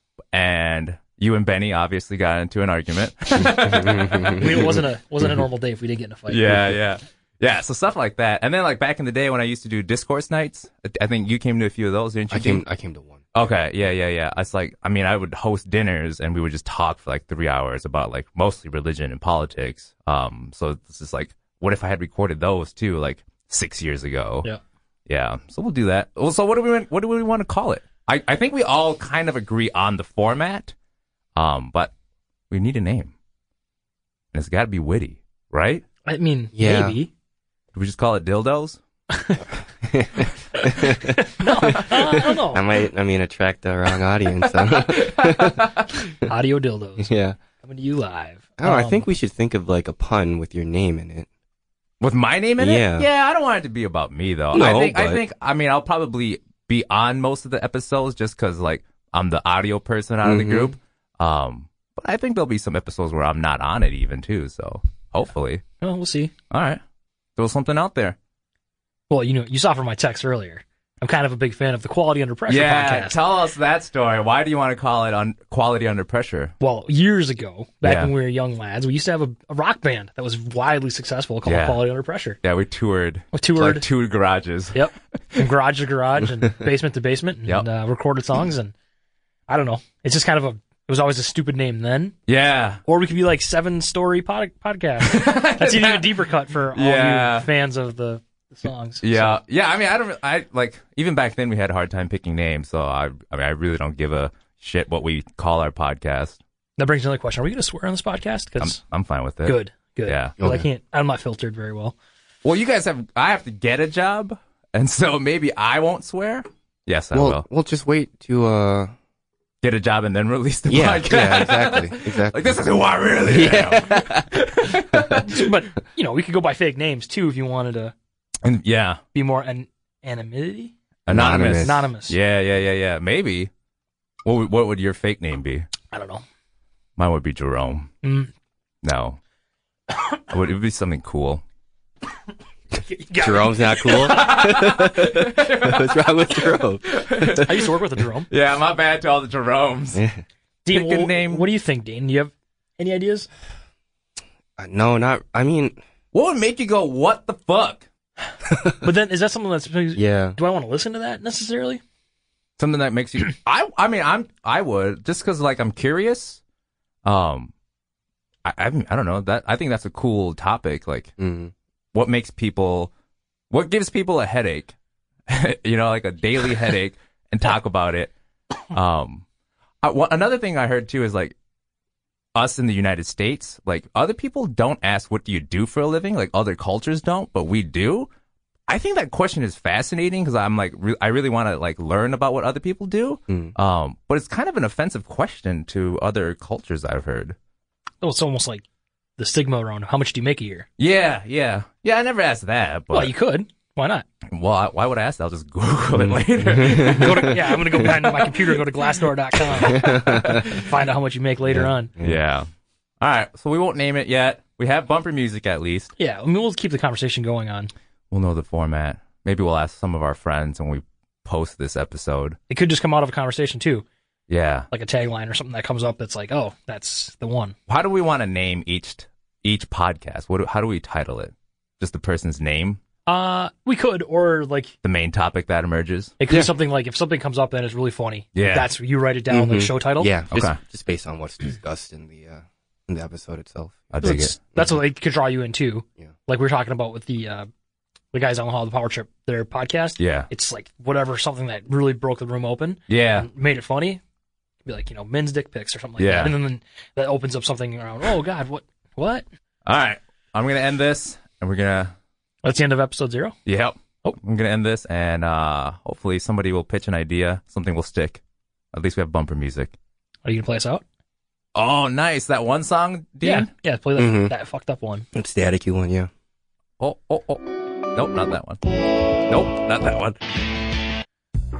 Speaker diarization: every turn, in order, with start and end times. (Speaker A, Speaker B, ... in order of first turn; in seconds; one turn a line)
Speaker A: 0.3-4.7
Speaker B: 3.6-4.7
Speaker C: 4.3-6.8
Speaker A: 6.3-12.7
Speaker B: 12.3-13.2
Speaker A: 13.3-24.5
Speaker A: 25.1-30.7
Speaker A: 31.4-31.9
Speaker A: 32.5-33.1
Speaker A: 34.3-35.8
Speaker C: 36.0-37.1
Speaker B: 36.5-37.0
Speaker A: 37.7-38.8
Speaker C: 39.1-39.4
Speaker B: 39.9-45.6
Speaker C: 40.6-42.6
Speaker A: 44.4-45.9
Speaker C: 46.2-49.1
Speaker B: 47.0-47.4
Speaker B: 48.6-51.3
Speaker A: 52.0-65.6
Speaker B: 52.6-53.1
Speaker B: 54.5-55.2
Speaker B: 60.2-60.8
Speaker C: 65.8-66.3
Speaker A: 66.5-66.8
Speaker A: 67.4-68.2
Speaker C: 69.1-73.2
Speaker A: 72.5-76.5
Speaker C: 76.6-82.4
Speaker A: 77.8-78.1
Speaker A: 81.4-81.9
Speaker A: 82.4-85.4
Speaker C: 83.3-83.9
Speaker C: 84.7-88.7
Speaker C: 89.5-92.1
Speaker A: 92.3-92.8
Speaker C: 92.8-99.4
Speaker A: 95.0-96.2
Speaker A: 96.7-97.5
Speaker A: 99.0-106.4
Speaker C: 106.8-108.8
Speaker A: 108.6-110.3
Speaker C: 109.4-112.0
Speaker B: 110.4-110.7
Speaker A: 112.4-117.5
Speaker B: 117.1-118.9
Speaker A: 119.6-125.2
Speaker B: 120.7-122.7
Speaker B: 123.2-124.4
Speaker C: 125.2-127.9
Speaker A: 128.4-129.0
Speaker C: 129.1-130.7
Speaker A: 131.1-133.5
Speaker B: 131.1-131.8
Speaker C: 131.5-132.2
Speaker A: 134.2-135.7
Speaker C: 135.9-136.2
Speaker A: 137.0-137.9
Speaker C: 138.0-138.3
Speaker A: 138.8-139.2
Speaker A: 140.3-141.4
Speaker C: 142.8-144.4
Speaker B: 143.1-147.6
Speaker A: 143.9-147.7
Speaker C: 147.4-148.3
Speaker A: 148.3-150.0
Speaker B: 149.9-150.2
Speaker C: 150.6-153.3
Speaker A: 150.7-151.5
Speaker B: 154.6-155.8
Speaker A: 156.1-157.8
Speaker C: 158.8-161.8
Speaker B: 159.9-160.4
Speaker A: 162.6-166.4
Speaker A: 167.0-167.5
Speaker A: 168.4-171.1
Speaker B: 171.2-171.5
Speaker A: 171.9-172.9
Speaker A: 173.5-174.7
Speaker A: 175.3-178.1
Speaker A: 178.7-179.2
Speaker A: 179.8-181.3
Speaker A: 182.3-188.1
Speaker A: 188.7-197.3
Speaker B: 193.3-193.5
Speaker C: 198.0-198.6
Speaker C: 199.2-200.7
Speaker A: 200.8-203.1
Speaker C: 202.9-204.1
Speaker A: 204.3-208.3
Speaker B: 205.9-207.9
Speaker C: 206.8-211.9
Speaker B: 209.6-210.3
Speaker A: 209.7-210.6
Speaker B: 211.5-212.2
Speaker A: 212.0-212.5
Speaker A: 213.0-215.9
Speaker C: 216.0-217.7
Speaker A: 218.1-222.4
Speaker C: 222.5-223.8
Speaker A: 224.3-224.7
Speaker C: 224.7-227.5
Speaker A: 227.7-232.8
Speaker C: 233.1-234.7
Speaker A: 234.8-236.2
Speaker C: 236.2-240.1
Speaker A: 238.3-238.7
Speaker B: 239.3-244.8
Speaker A: 240.3-240.6
Speaker A: 243.9-244.3
Speaker C: 244.0-247.5
Speaker C: 248.1-254.0
Speaker A: 250.0-250.3
Speaker A: 252.9-253.3
Speaker C: 254.6-259.2
Speaker A: 256.0-256.4
Speaker A: 259.6-261.9
Speaker C: 262.4-263.4
Speaker A: 263.4-268.2
Speaker A: 268.7-269.7
Speaker C: 270.2-270.8
Speaker A: 271.5-273.5
Speaker C: 273.2-275.1
Speaker B: 274.0-274.3
Speaker B: 275.1-276.1
Speaker A: 276.8-277.4
Speaker A: 277.9-278.6
Speaker A: 279.3-280.2